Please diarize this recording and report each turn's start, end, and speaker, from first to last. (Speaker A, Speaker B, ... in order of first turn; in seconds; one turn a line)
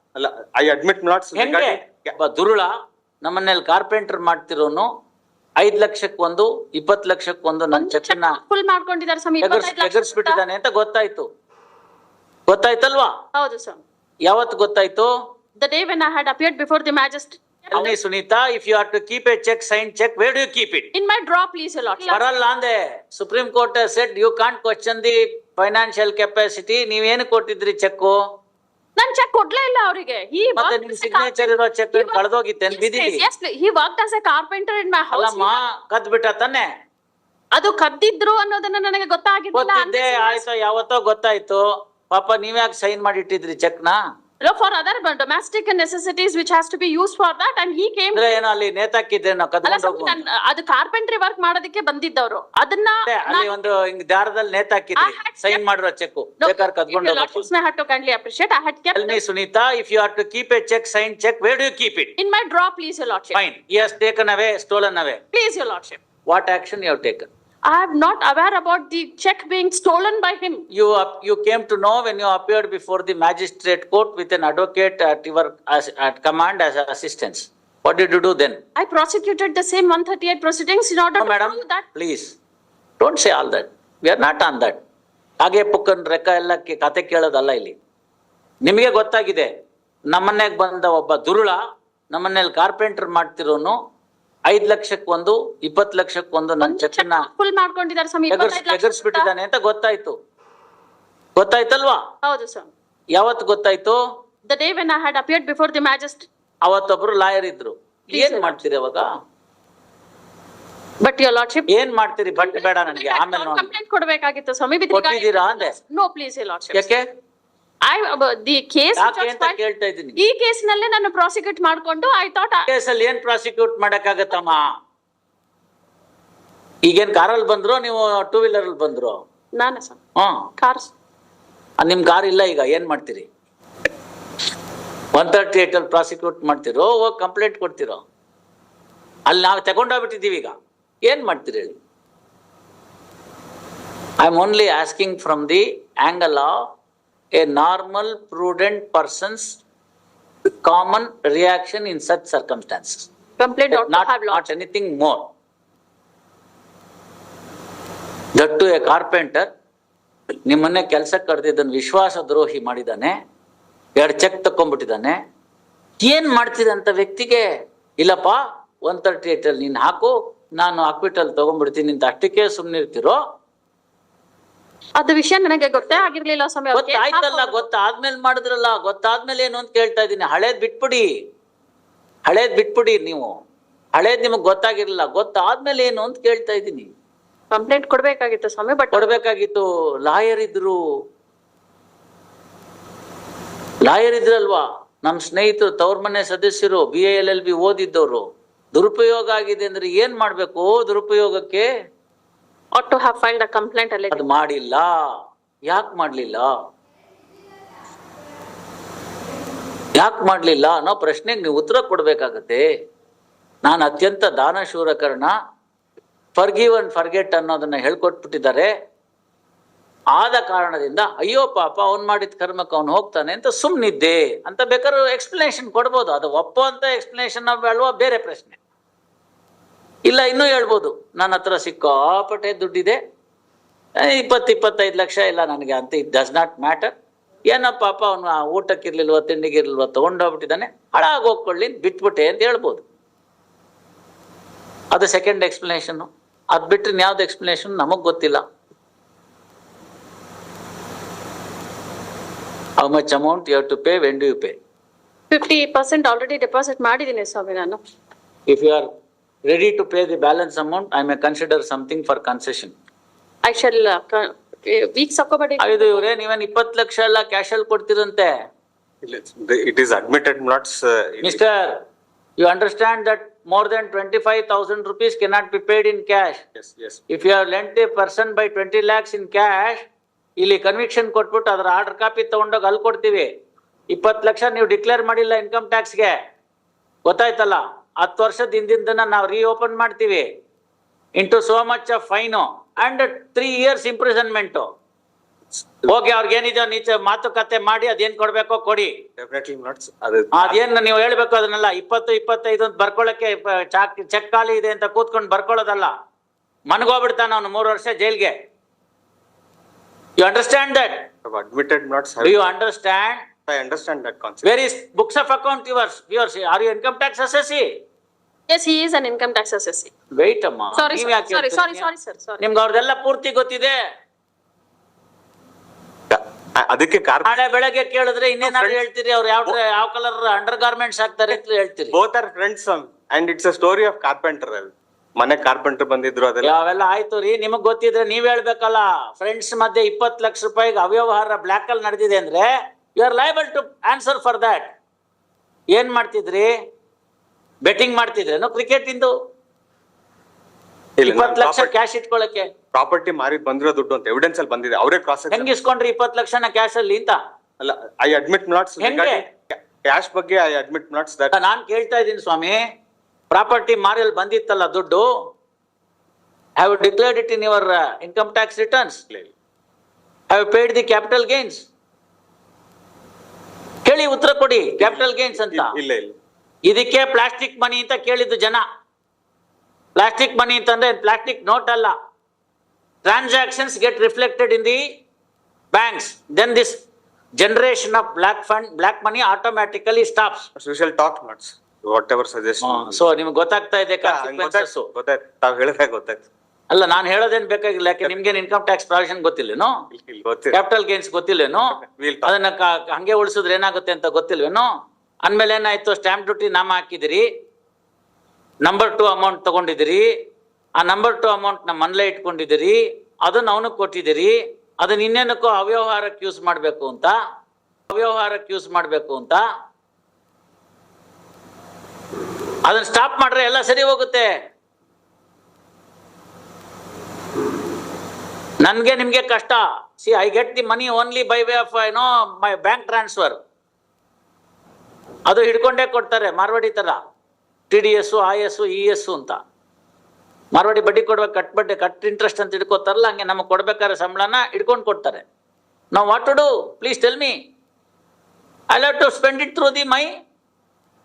Speaker A: 0.1-2.1
Speaker B: 1.3-2.7
Speaker B: 3.2-4.9
Speaker B: 5.6-8.4
Speaker C: 7.7-10.4
Speaker B: 9.4-11.3
Speaker B: 12.5-13.1
Speaker C: 13.3-13.8
Speaker B: 14.3-15.1
Speaker C: 15.6-17.9
Speaker B: 17.7-20.9
Speaker C: 20.9-22.2
Speaker B: 22.1-28.2
Speaker C: 29.0-35.6
Speaker B: 30.6-33.2
Speaker B: 35.1-36.7
Speaker C: 37.5-40.4
Speaker B: 39.5-44.0
Speaker C: 44.4-48.4
Speaker B: 48.1-50.2
Speaker C: 49.6-53.5
Speaker B: 53.0-57.5
Speaker C: 55.0-55.6
Speaker C: 56.4-59.2
Speaker B: 58.9-62.1
Speaker C: 62.2-63.4
Speaker B: 63.3-65.2
Speaker C: 65.3-66.0
Speaker B: 66.2-67.3
Speaker C: 67.7-70.7
Speaker B: 70.7-78.6
Speaker C: 78.8-81.8
Speaker B: 81.2-82.3
Speaker B: 83.0-84.8
Speaker B: 85.4-87.8
Speaker B: 88.6-89.5
Speaker B: 90.1-93.8
Speaker B: 94.5-97.3
Speaker C: 96.6-99.3
Speaker B: 98.3-100.2
Speaker B: 101.3-102.0
Speaker C: 102.2-102.7
Speaker B: 103.2-104.0
Speaker C: 104.5-106.3
Speaker B: 106.6-109.1
Speaker C: 108.1-108.6
Speaker C: 111.0-111.7
Speaker B: 111.7-113.7
Speaker C: 112.4-116.9
Speaker B: 114.9-115.7
Speaker B: 116.7-117.1
Speaker C: 117.8-119.6
Speaker B: 119.0-120.2
Speaker C: 120.2-122.7
Speaker B: 122.7-124.7
Speaker B: 126.8-129.2
Speaker C: 129.6-130.0
Speaker B: 130.2-130.5
Speaker C: 130.6-130.9
Speaker B: 131.8-133.3
Speaker B: 135.1-138.0
Speaker B: 139.3-140.5
Speaker B: 141.1-141.8
Speaker B: 144.2-146.7
Speaker B: 147.3-149.6
Speaker B: 150.6-153.1
Speaker C: 153.4-154.4
Speaker B: 153.7-155.3
Speaker B: 158.3-159.5
Speaker B: 160.4-163.1
Speaker B: 163.9-165.2
Speaker B: 166.0-167.4
Speaker B: 168.0-173.2
Speaker C: 175.0-177.7
Speaker B: 176.7-181.1
Speaker B: 182.3-183.3
Speaker B: 183.9-186.9
Speaker C: 187.5-189.1
Speaker B: 188.9-190.8
Speaker B: 193.8-201.7
Speaker C: 202.7-204.2
Speaker B: 204.1-206.5
Speaker B: 209.9-212.6
Speaker B: 213.6-215.3
Speaker B: 216.3-218.7
Speaker B: 220.2-228.6
Speaker B: 230.1-233.0
Speaker B: 234.0-236.9
Speaker B: 237.5-242.8
Speaker B: 244.9-248.4
Speaker B: 252.8-254.6
Speaker C: 255.3-257.8
Speaker B: 258.5-258.9
Speaker B: 259.5-262.7
Speaker C: 263.4-266.1
Speaker B: 265.6-268.3
Speaker A: 269.0-271.4
Speaker B: 271.2-271.8
Speaker B: 272.4-276.4
Speaker A: 276.6-277.0
Speaker B: 277.1-279.9
Speaker B: 280.4-283.3
Speaker B: 283.9-286.2
Speaker B: 287.0-290.3
Speaker B: 291.2-294.7
Speaker B: 295.9-298.9
Speaker A: 299.2-300.6
Speaker B: 300.3-305.9
Speaker B: 306.7-308.4
Speaker B: 310.2-311.1
Speaker A: 311.2-312.4
Speaker B: 312.2-313.2
Speaker A: 313.5-314.5
Speaker B: 314.4-317.7
Speaker C: 318.5-319.9
Speaker B: 320.1-321.9
Speaker C: 320.7-322.4
Speaker B: 322.4-323.8
Speaker A: 326.1-327.4
Speaker B: 327.2-331.9
Speaker A: 328.4-328.8
Speaker A: 331.9-336.5
Speaker B: 336.4-344.7
Speaker B: 345.7-346.5
Speaker B: 347.6-349.1
Speaker A: 351.0-351.7
Speaker B: 351.0-352.5
Speaker A: 352.7-355.5
Speaker B: 355.3-357.2
Speaker A: 357.6-361.4
Speaker B: 358.8-359.2
Speaker B: 361.3-362.6
Speaker B: 363.3-365.1
Speaker B: 366.6-369.0
Speaker B: 370.3-371.6
Speaker B: 373.9-375.7
Speaker A: 375.5-376.1
Speaker B: 376.6-378.6
Speaker B: 379.9-381.9
Speaker B: 383.0-384.8
Speaker B: 385.7-386.8
Speaker B: 387.4-390.5
Speaker A: 390.6-393.0
Speaker B: 392.6-394.9
Speaker A: 394.0-396.2
Speaker B: 396.7-399.7
Speaker A: 399.9-400.6
Speaker B: 400.5-404.7
Speaker A: 401.7-402.3
Speaker B: 405.2-407.2
Speaker B: 408.6-410.1
Speaker B: 410.8-417.1
Speaker B: 417.9-419.4
Speaker B: 422.6-424.3
Speaker B: 428.6-433.4
Speaker B: 435.3-437.0
Speaker B: 437.7-439.4
Speaker B: 440.5-445.2
Speaker B: 445.9-447.4
Speaker B: 448.7-450.1